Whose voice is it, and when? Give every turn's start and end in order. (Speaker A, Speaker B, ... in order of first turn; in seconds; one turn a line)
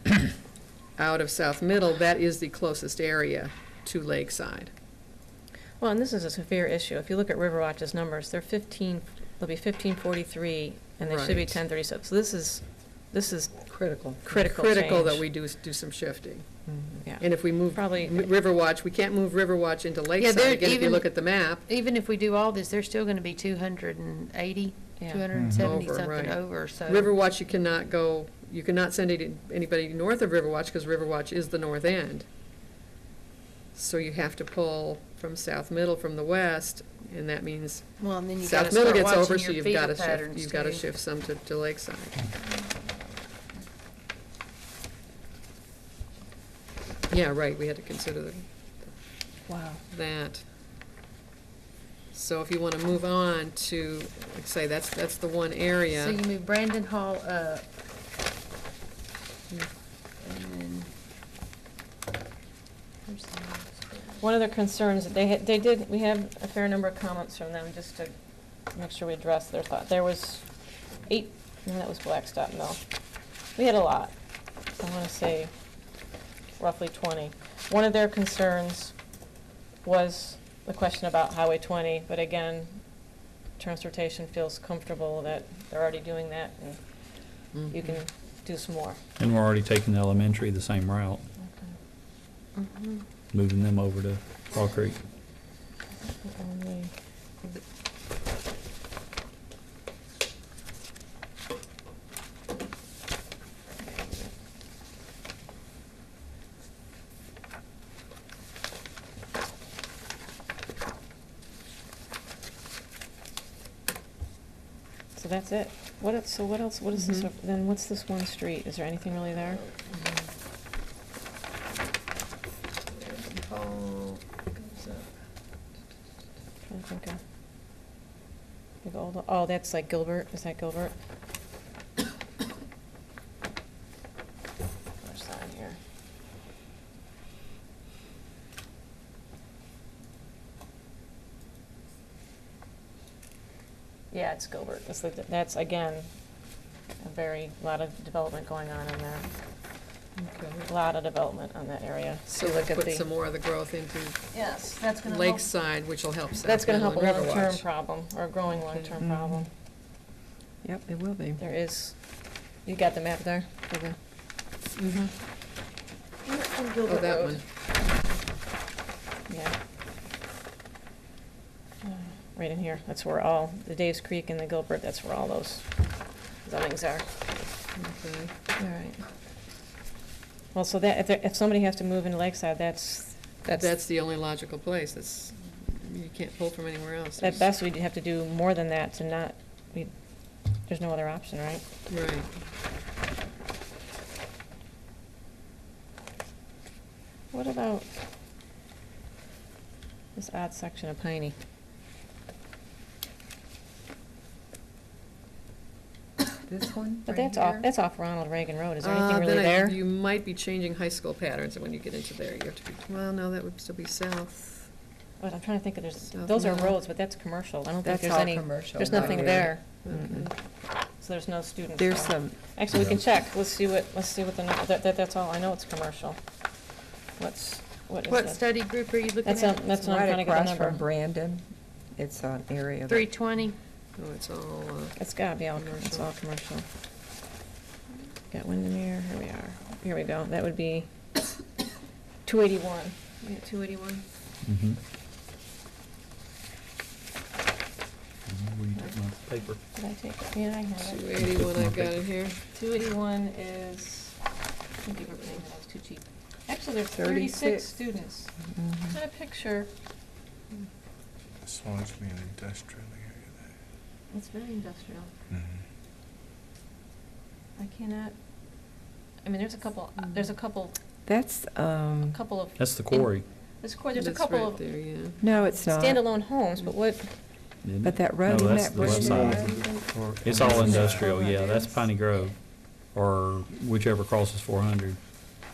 Speaker A: 1.0-4.7
Speaker B: 5.8-13.7
Speaker A: 11.0-11.6
Speaker C: 13.7-14.2
Speaker A: 14.1-16.6
Speaker B: 14.2-15.2
Speaker C: 16.7-17.0
Speaker B: 17.1-18.3
Speaker A: 17.2-21.7
Speaker D: 20.2-21.1
Speaker D: 21.7-27.1
Speaker B: 25.0-25.3
Speaker E: 25.3-25.7
Speaker A: 25.5-32.3
Speaker A: 33.7-42.3
Speaker D: 38.0-40.9
Speaker A: 47.1-48.9
Speaker B: 49.5-49.8
Speaker A: 49.9-50.4
Speaker A: 52.1-56.2
Speaker D: 55.9-57.7
Speaker D: 60.2-60.9
Speaker D: 63.1-64.0
Speaker B: 64.2-72.8
Speaker B: 73.5-74.2
Speaker B: 74.7-75.5
Speaker B: 76.6-79.0
Speaker B: 79.8-89.0
Speaker A: 87.5-87.9
Speaker F: 89.2-91.2
Speaker B: 91.5-91.7
Speaker D: 92.6-93.0
Speaker F: 93.3-95.0
Speaker B: 96.2-96.9
Speaker B: 103.8-104.3
Speaker B: 115.2-119.6
Speaker A: 117.0-117.2
Speaker A: 119.7-120.1
Speaker A: 122.9-125.1
Speaker B: 126.7-127.2
Speaker B: 128.8-130.9
Speaker B: 135.0-135.8
Speaker B: 144.1-146.4
Speaker B: 147.0-149.3
Speaker A: 150.2-150.7
Speaker B: 150.7-153.1
Speaker A: 152.3-157.6
Speaker B: 154.3-155.5
Speaker B: 156.4-159.5
Speaker A: 158.6-158.9
Speaker C: 159.0-159.5
Speaker C: 160.6-161.4
Speaker B: 161.4-163.9
Speaker A: 164.8-165.1
Speaker D: 166.7-167.4
Speaker A: 166.8-167.4
Speaker B: 169.3-169.5
Speaker B: 171.8-177.1
Speaker A: 177.8-178.3
Speaker B: 178.6-179.0
Speaker B: 180.5-183.8
Speaker A: 183.5-187.4
Speaker B: 187.2-191.6
Speaker A: 191.9-192.3
Speaker B: 197.3-197.9
Speaker B: 200.2-201.3
Speaker C: 206.4-207.7
Speaker B: 207.1-209.8
Speaker A: 208.8-214.7
Speaker B: 215.2-219.6
Speaker A: 216.1-216.7
Speaker C: 217.8-220.3
Speaker A: 218.9-220.3
Speaker B: 221.0-226.2
Speaker C: 221.8-222.4
Speaker B: 227.2-230.8
Speaker D: 228.1-229.7
Speaker C: 229.8-231.4
Speaker C: 231.9-233.1
Speaker D: 232.9-233.6
Speaker A: 234.0-235.0
Speaker B: 235.0-236.7
Speaker A: 235.6-236.1
Speaker B: 238.3-240.9
Speaker B: 242.2-244.0
Speaker F: 244.4-244.8
Speaker F: 248.3-249.6
Speaker B: 249.7-251.1
Speaker A: 250.8-252.4
Speaker F: 251.2-252.0
Speaker B: 252.5-254.2
Speaker B: 254.8-258.4
Speaker C: 256.9-257.8
Speaker C: 258.5-259.0
Speaker B: 258.9-259.7
Speaker E: 261.4-263.5
Speaker B: 264.1-265.1
Speaker E: 265.3-265.6
Speaker B: 267.6-268.7
Speaker B: 269.2-270.8
Speaker C: 271.1-272.2
Speaker B: 272.1-277.1
Speaker F: 272.6-273.3
Speaker A: 274.0-275.2
Speaker C: 275.2-276.5
Speaker F: 277.6-279.4
Speaker C: 277.8-279.9
Speaker E: 278.7-281.1
Speaker F: 280.2-285.0
Speaker B: 280.5-281.9